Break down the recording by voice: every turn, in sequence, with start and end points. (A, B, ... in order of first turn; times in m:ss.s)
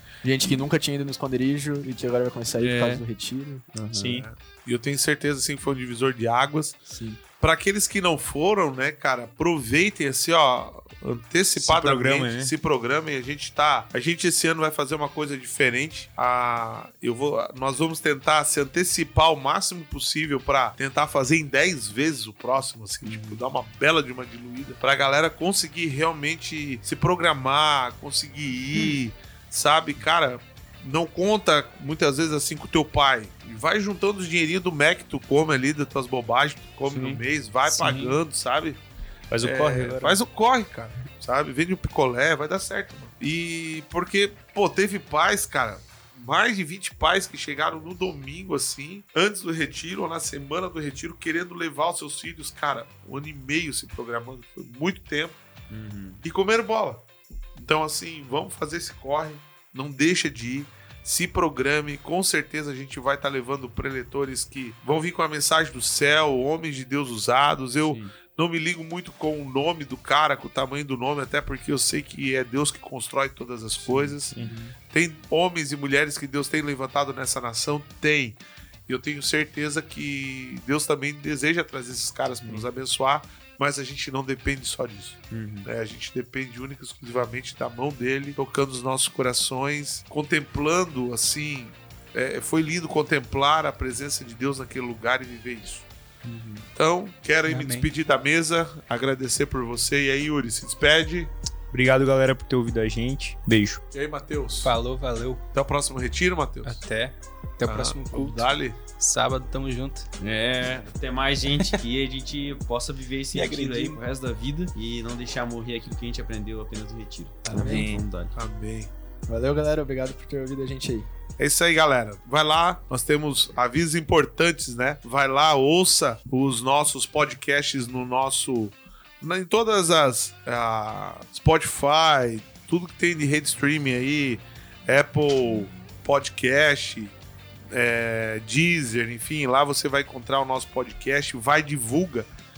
0:00.2-0:04.2 A
0:02.5-0:03.0 B
0:03.9-0:04.2 B
0:04.0-0:06.8 C
0:06.9-0:07.2 A
0:07.4-0:38.8 C
0:11.6-0:12.5 D
0:36.9-0:37.2 B
0:37.7-0:38.2 E
0:39.3-0:40.2 D
0:39.4-0:55.4 C
0:55.7-0:56.2 B
0:56.2-0:57.0 C
0:57.6-1:14.3 C
1:14.9-1:35.8 C
1:25.3-1:25.6 B
1:36.3-1:36.6 D
1:36.7-1:41.3 C
1:37.5-1:37.9 E
1:41.7-1:43.8 D
1:43.9-1:44.7 C
1:44.6-1:45.4 E
1:45.5-1:46.8 C
1:46.6-1:50.1 E
1:47.6-1:48.8 C
1:50.2-1:58.3 B
1:53.3-1:54.0 E
1:57.4-1:57.8 A
1:57.5-1:58.0 D
1:58.3-1:58.9 C
1:59.3-2:01.1 A
2:01.4-2:17.1 C
2:17.7-2:22.3 C